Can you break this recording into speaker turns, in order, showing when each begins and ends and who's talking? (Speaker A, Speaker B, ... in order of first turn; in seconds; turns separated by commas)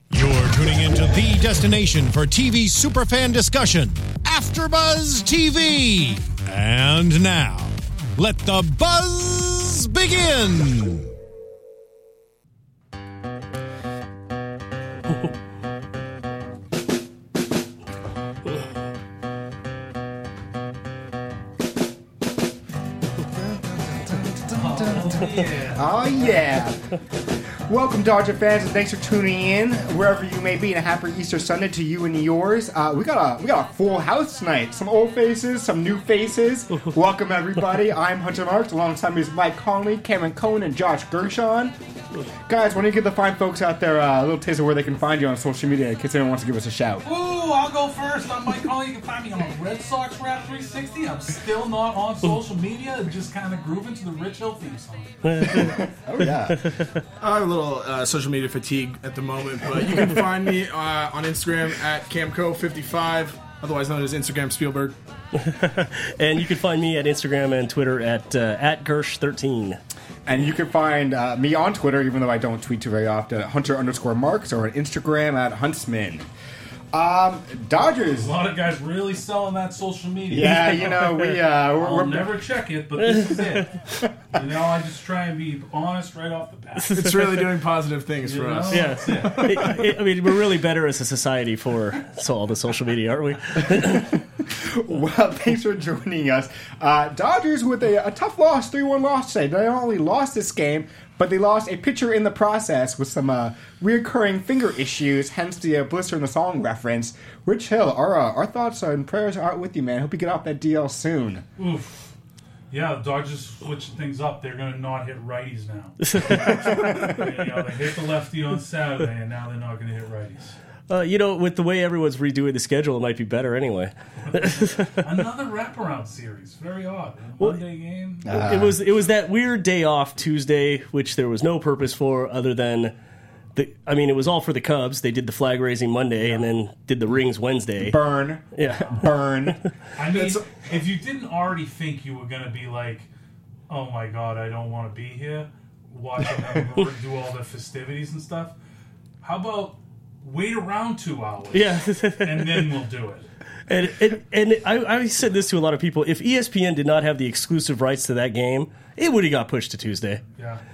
Speaker A: 0.1-11.1, Speaker B: 23.3-26.8, Speaker C: 24.5-25.9, Speaker B: 27.7-41.7, Speaker B: 42.5-47.0, Speaker C: 47.0-55.2, Speaker D: 55.2-55.7, Speaker B: 55.5-56.7, Speaker D: 56.5-57.0, Speaker E: 57.2-65.0, Speaker D: 65.3-69.8, Speaker B: 70.2-76.2, Speaker B: 76.9-78.3, Speaker C: 78.2-87.4, Speaker B: 80.3-82.3, Speaker D: 83.0-83.7, Speaker D: 86.8-87.2, Speaker E: 86.9-89.6, Speaker C: 88.2-89.7, Speaker D: 88.7-94.2, Speaker B: 93.7-111.4, Speaker C: 111.6-112.1, Speaker C: 112.7-120.5, Speaker D: 116.0-116.9, Speaker B: 116.3-117.3, Speaker D: 120.9-125.0, Speaker C: 124.3-128.3, Speaker B: 128.2-128.8, Speaker D: 128.3-132.9, Speaker D: 133.6-138.0, Speaker B: 137.8-139.6, Speaker D: 138.5-139.1, Speaker C: 139.9-143.1, Speaker E: 140.1-140.5, Speaker C: 143.7-148.5, Speaker C: 149.2-153.2, Speaker D: 151.5-152.7, Speaker D: 153.7-160.2